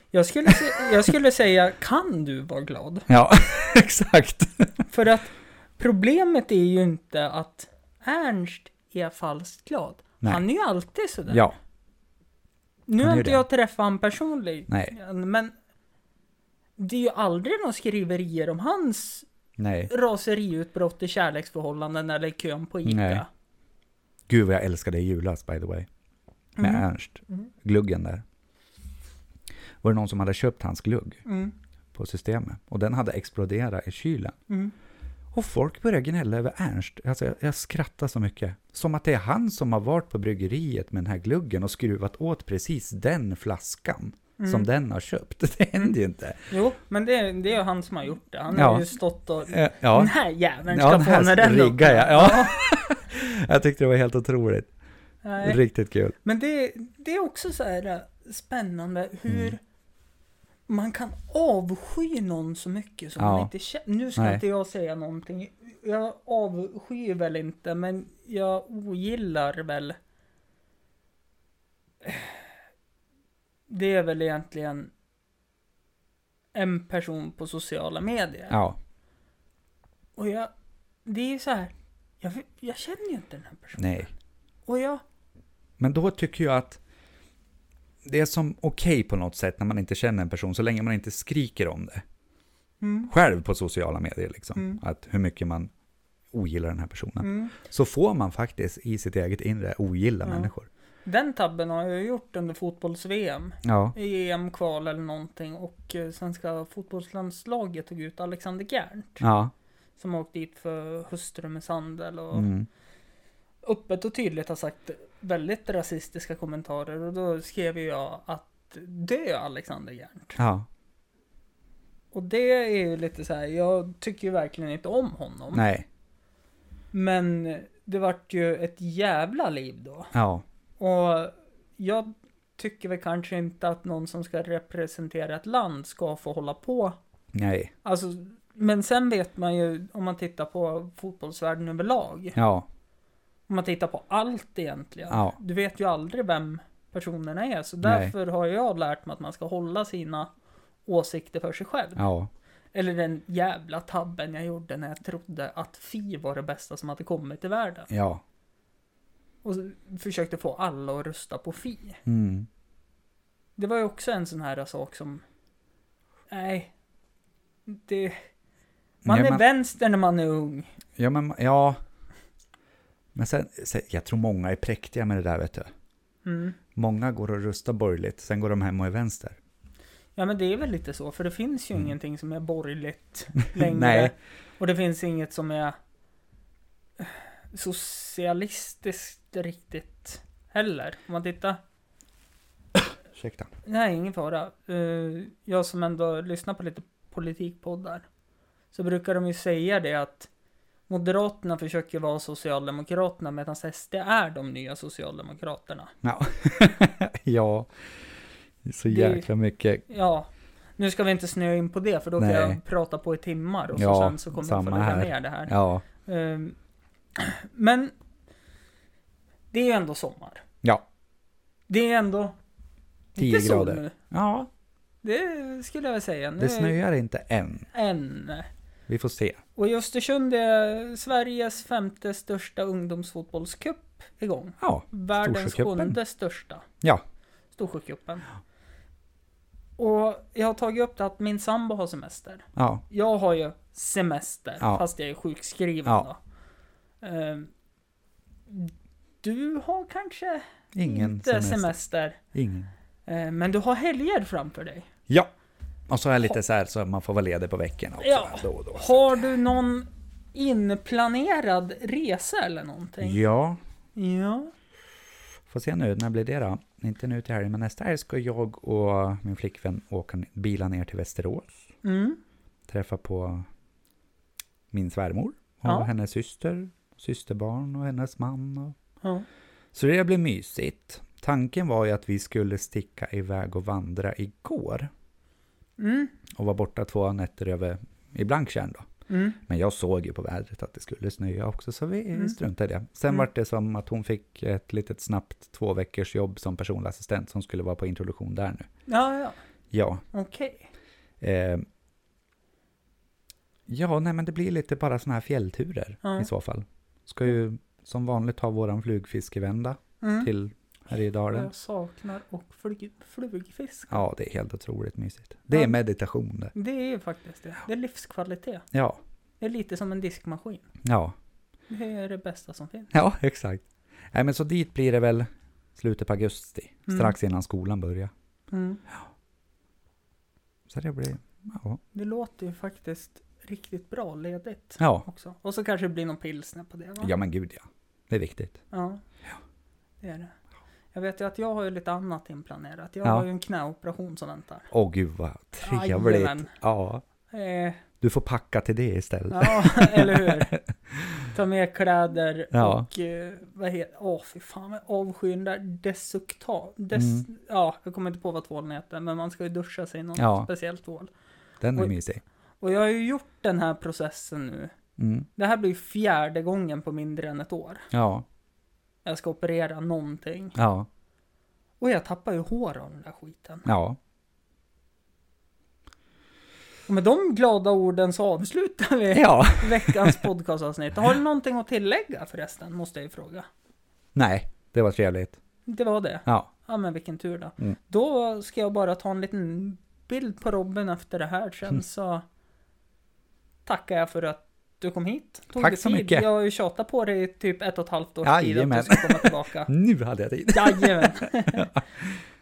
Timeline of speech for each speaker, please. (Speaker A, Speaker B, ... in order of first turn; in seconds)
Speaker A: 0.1-3.1, 4.9-11.5, 12.9-15.5, 16.8-19.3, 19.9-23.3, 26.6-27.5, 31.2-31.5, 34.5-34.7, 44.4-44.7, 46.5-52.6, 55.2-55.6, 56.2-59.6, 60.7-70.0, 72.0-72.4, 73.7-74.9, 76.5-78.6, 80.2-80.5, 81.0-84.1, 84.7-85.0, 92.8-93.1, 94.5-94.8, 97.2-97.5, 100.2-100.5, 101.0-109.2, 110.0-112.5, 113.6-120.4, 122.1-125.6, 126.9-130.1, 130.8-137.0, 137.8-142.4, 143.5-150.3, 150.8-152.1, 152.7-157.9, 159.4-162.0, 163.6-165.2, 166.3-166.7, 167.7-168.2, 169.1-170.7, 176.2-176.6, 180.2-185.7, 187.0-191.6, 193.6-198.1, 198.7-200.3, 200.9-205.9, 208.8-209.3, 209.9-216.6, 217.1-217.9, 219.5-220.4, 221.7-222.3, 223.1-223.9, 225.0-226.8, 227.7-228.5, 229.6-236.7, 237.5-238.2, 239.8-246.2, 247.0-247.5, 248.5-252.2, 253.1-254.9, 258.0-263.2, 263.9-264.5, 271.8-272.2, 285.8-286.1, 289.1-289.4, 298.9-299.3, 300.1-300.7, 306.0-306.3, 310.0-310.3, 311.3-314.0, 316.5-318.7, 319.4-320.6, 321.7-322.9, 326.9-327.1, 328.5-328.8, 331.9-337.1, 338.7-339.0, 340.0-340.3, 340.9-344.7, 345.6-346.5, 347.3-347.8, 349.3-350.5, 351.3-361.1, 362.6-364.7, 365.4-367.9, 369.0-370.6, 371.8-373.7, 376.9-383.5, 385.6-392.2, 393.6-399.7, 400.5-401.7
Speaker B: 0.5-0.8, 3.1-4.8, 11.3-11.6, 13.0-13.4, 19.6-19.9, 22.9-23.2, 24.3-25.9, 26.6-28.2, 29.8-31.2, 31.9-34.4, 35.3-46.5, 48.5-48.9, 49.5-50.1, 50.7-54.7, 55.4-56.1, 59.3-59.5, 63.2-63.5, 64.2-64.4, 78.5-78.8, 83.8-84.1, 85.8-86.8, 88.0-92.0, 93.1-95.7, 96.3-100.7, 103.6-104.0, 109.2-109.5, 112.3-112.7, 120.4-120.7, 125.5-125.8, 130.1-130.4, 137.3-137.7, 142.3-142.7, 145.1-145.3, 147.8-148.1, 152.0-152.3, 157.9-158.2, 162.1-162.5, 169.0-169.4, 171.0-171.8, 173.1-175.7, 176.7-179.4, 183.5-184.1, 193.1-193.5, 206.0-207.7, 208.6-209.8, 212.2-212.6, 213.7-215.8, 223.2-224.5, 226.4-227.7, 228.9-229.4, 234.6-235.9, 242.6-242.8, 250.7-251.7, 252.3-252.7, 255.9-259.2, 263.0-263.6, 265.5-271.6, 272.7-273.5, 274.7-278.8, 279.7-284.9, 286.3-288.9, 289.4-298.7, 299.7-300.0, 301.2-301.6, 303.7-311.5, 313.9-316.5, 318.7-319.0, 320.8-321.1, 322.9-328.1, 330.7-331.8, 334.8-335.1, 337.0-338.6, 344.7-347.0, 348.0-351.3, 352.5-352.9, 356.9-357.3, 360.2-360.5, 361.6-362.2, 365.0-365.3, 367.9-368.2, 370.6-370.9, 373.6-374.0, 379.1-380.2, 384.1-385.4, 395.6-396.3, 398.2-402.2